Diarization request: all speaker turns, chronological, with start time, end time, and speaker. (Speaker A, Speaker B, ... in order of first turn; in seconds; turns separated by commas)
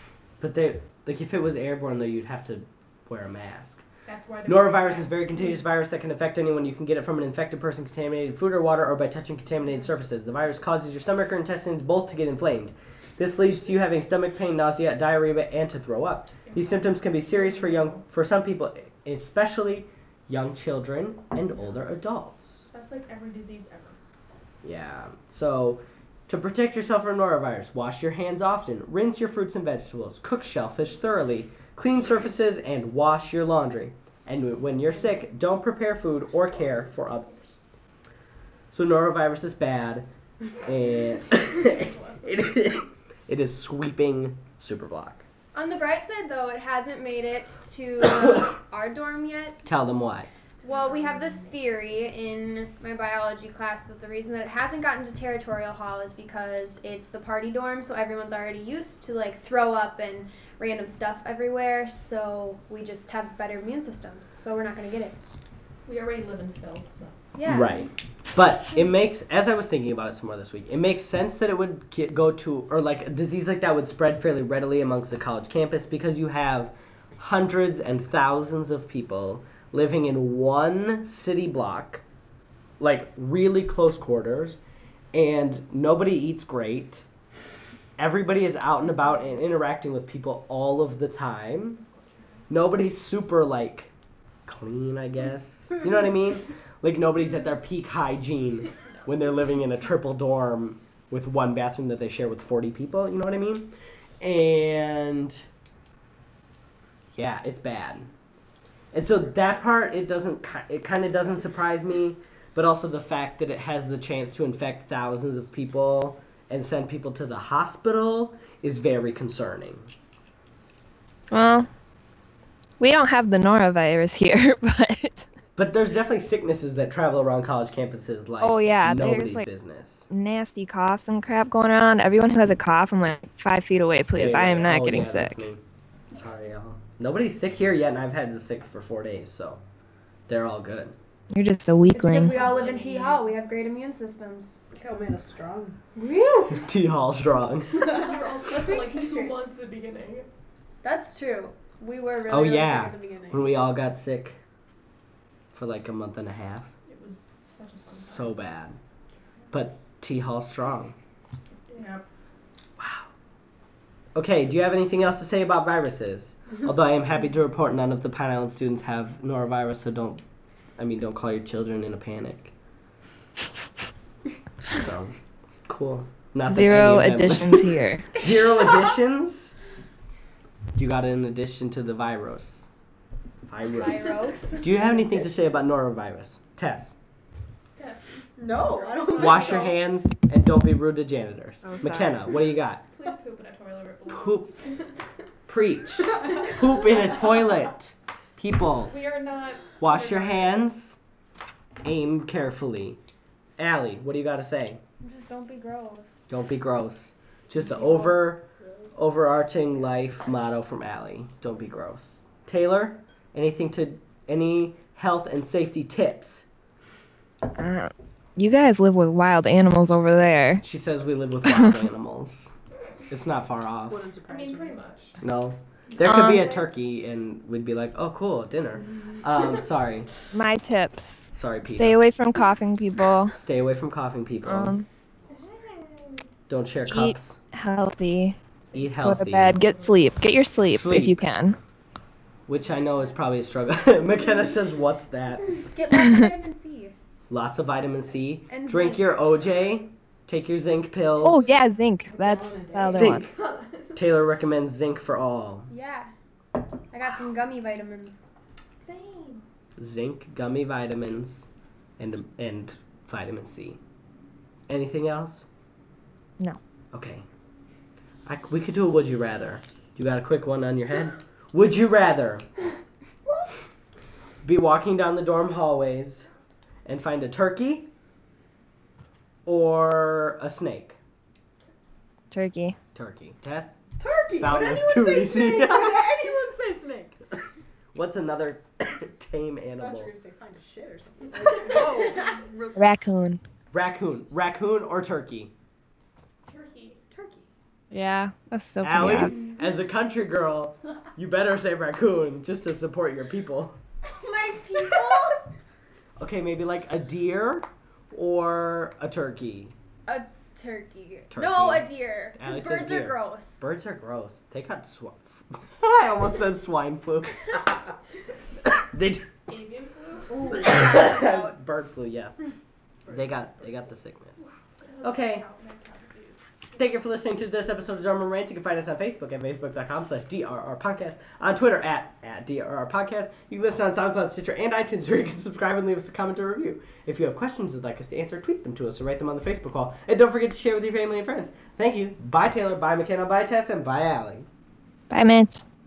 Speaker A: 0.4-3.8, Speaker B: 4.0-5.6, Speaker A: 4.5-22.7, Speaker B: 16.4-18.0, Speaker B: 22.7-24.0, Speaker A: 24.6-37.6, Speaker B: 36.7-37.2, Speaker A: 38.7-40.1, Speaker A: 40.6-45.2, Speaker B: 41.3-42.4, Speaker C: 45.5-49.6, Speaker A: 49.6-50.3, Speaker C: 50.6-65.2, Speaker B: 50.7-51.4, Speaker B: 65.8-67.1, Speaker C: 67.3-67.9, Speaker A: 67.4-82.0, Speaker A: 82.8-84.6, Speaker A: 85.1-87.0, Speaker A: 88.0-91.8, Speaker B: 91.9-92.3, Speaker A: 92.5-93.9, Speaker A: 94.5-105.4, Speaker A: 107.1-108.1, Speaker A: 108.9-119.9, Speaker D: 121.3-121.7, Speaker D: 122.8-125.3, Speaker A: 125.5-130.1, Speaker D: 128.4-129.5, Speaker D: 130.1-135.4, Speaker A: 133.8-135.6, Speaker A: 136.1-139.6, Speaker A: 140.3-140.9, Speaker D: 141.3-142.3, Speaker C: 141.9-144.6, Speaker B: 142.4-143.0, Speaker E: 144.7-145.8, Speaker C: 145.9-146.6, Speaker A: 146.5-147.7, Speaker B: 147.8-150.3, Speaker E: 147.9-149.3, Speaker C: 147.9-149.2, Speaker C: 150.8-153.5, Speaker A: 152.3-154.4, Speaker A: 155.5-156.7, Speaker B: 156.8-158.3, Speaker A: 157.8-158.8, Speaker A: 159.5-160.9, Speaker B: 161.7-162.0, Speaker A: 162.8-163.1, Speaker A: 164.1-170.2, Speaker A: 170.8-172.5, Speaker A: 174.7-175.1, Speaker A: 175.7-177.6, Speaker D: 176.5-178.1, Speaker A: 178.1-179.5, Speaker A: 180.7-182.7, Speaker A: 183.5-186.9, Speaker C: 183.7-184.7, Speaker B: 187.8-189.7, Speaker E: 188.4-189.7, Speaker A: 189.1-192.8, Speaker D: 191.6-192.3, Speaker B: 192.9-195.0, Speaker A: 194.1-194.5, Speaker A: 195.5-198.9, Speaker B: 198.8-200.7, Speaker A: 199.8-200.9, Speaker A: 201.8-203.0, Speaker A: 203.6-204.8, Speaker C: 205.0-206.2, Speaker A: 206.3-216.4, Speaker D: 217.5-220.6, Speaker A: 220.6-222.5, Speaker A: 223.1-224.1, Speaker E: 223.9-224.8, Speaker B: 224.3-225.2, Speaker A: 225.2-230.1, Speaker D: 226.0-226.5, Speaker D: 230.3-233.3, Speaker A: 231.3-232.0, Speaker A: 233.3-234.7, Speaker D: 234.4-234.9, Speaker A: 236.5-237.4, Speaker D: 236.9-238.4, Speaker A: 238.7-239.6, Speaker D: 239.0-241.6, Speaker B: 239.5-240.1, Speaker A: 240.6-241.2, Speaker A: 242.5-245.5, Speaker C: 245.7-246.9, Speaker A: 247.3-251.5, Speaker C: 248.5-249.1, Speaker D: 251.2-253.2, Speaker E: 252.1-253.8, Speaker A: 252.8-253.2, Speaker A: 253.9-255.7, Speaker C: 255.7-256.1, Speaker C: 256.9-258.2, Speaker B: 258.8-259.4, Speaker A: 259.8-261.4, Speaker A: 262.0-263.8, Speaker A: 264.7-265.4, Speaker A: 266.9-267.2, Speaker A: 268.2-272.5, Speaker A: 274.4-276.2, Speaker A: 276.8-277.9, Speaker A: 279.4-281.0, Speaker D: 282.3-282.8, Speaker A: 282.9-283.7, Speaker E: 284.0-287.1, Speaker A: 284.4-286.1, Speaker A: 287.9-290.1, Speaker E: 289.8-292.9, Speaker D: 292.8-293.4, Speaker A: 293.7-295.5, Speaker B: 296.4-297.0, Speaker E: 297.1-297.5, Speaker D: 297.9-299.4, Speaker A: 298.8-303.8, Speaker C: 304.0-305.4, Speaker A: 306.2-309.7, Speaker C: 310.1-313.6, Speaker A: 311.3-317.9, Speaker A: 318.6-319.3, Speaker B: 319.5-320.4, Speaker C: 320.3-321.5, Speaker A: 320.4-322.4, Speaker E: 323.1-323.8, Speaker A: 323.1-324.4, Speaker B: 324.4-326.6, Speaker A: 325.0-325.4, Speaker A: 326.7-344.5, Speaker D: 345.1-345.6